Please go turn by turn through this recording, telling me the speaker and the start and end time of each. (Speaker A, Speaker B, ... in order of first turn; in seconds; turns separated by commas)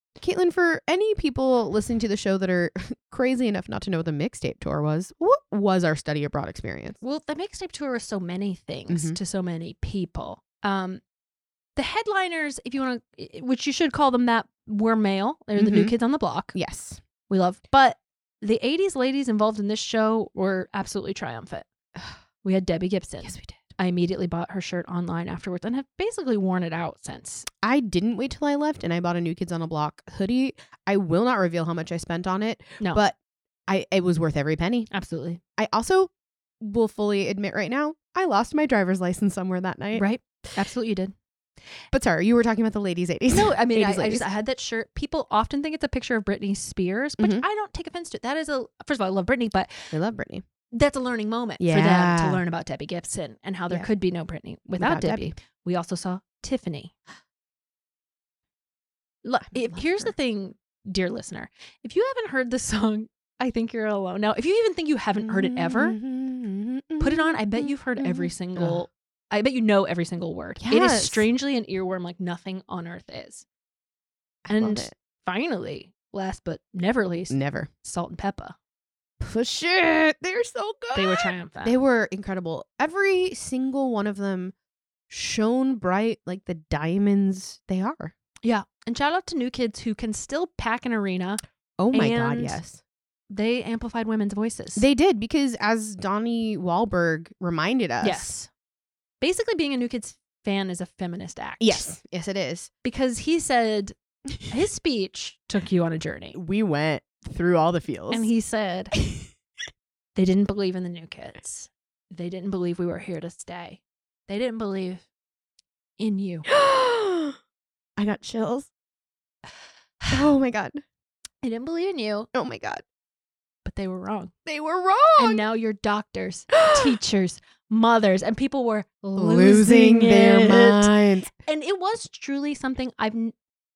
Speaker A: 0.2-7.0, Speaker B: 7.0-11.0, Speaker A: 8.9-9.2, Speaker B: 11.8-16.5, Speaker A: 15.6-15.9, Speaker A: 16.5-17.0, Speaker B: 17.3-21.6, Speaker B: 22.4-27.5, Speaker A: 23.2-23.7, Speaker A: 27.6-33.1, Speaker A: 33.7-34.9, Speaker B: 34.9-35.4, Speaker A: 35.6-40.1, Speaker B: 39.9-41.1, Speaker A: 41.9-44.3, Speaker B: 43.3-49.9, Speaker A: 47.2-47.4, Speaker A: 49.9-50.4, Speaker B: 50.7-56.9, Speaker A: 51.6-52.4, Speaker A: 54.7-55.3, Speaker B: 59.2-66.0, Speaker A: 59.5-60.1, Speaker A: 65.2-68.8, Speaker B: 67.0-73.4, Speaker A: 70.6-71.2, Speaker A: 74.4-74.9, Speaker B: 74.5-78.5, Speaker A: 77.3-77.7, Speaker A: 79.2-84.5, Speaker B: 80.9-81.8, Speaker A: 85.1-88.1, Speaker B: 88.4-92.6, Speaker A: 91.8-92.8, Speaker B: 93.3-94.8, Speaker A: 94.8-98.3, Speaker B: 98.0-98.5, Speaker B: 99.2-101.9, Speaker A: 101.6-102.7, Speaker B: 102.8-103.9, Speaker B: 104.5-106.4, Speaker A: 106.3-108.3, Speaker B: 108.1-108.9, Speaker B: 110.2-115.0, Speaker B: 116.0-116.5, Speaker A: 116.5-117.4, Speaker A: 118.0-118.7, Speaker A: 120.1-120.8, Speaker B: 121.4-122.3, Speaker A: 122.3-122.8, Speaker B: 123.6-124.3, Speaker A: 124.5-125.4, Speaker B: 125.2-130.9, Speaker A: 129.2-131.3, Speaker B: 131.4-133.3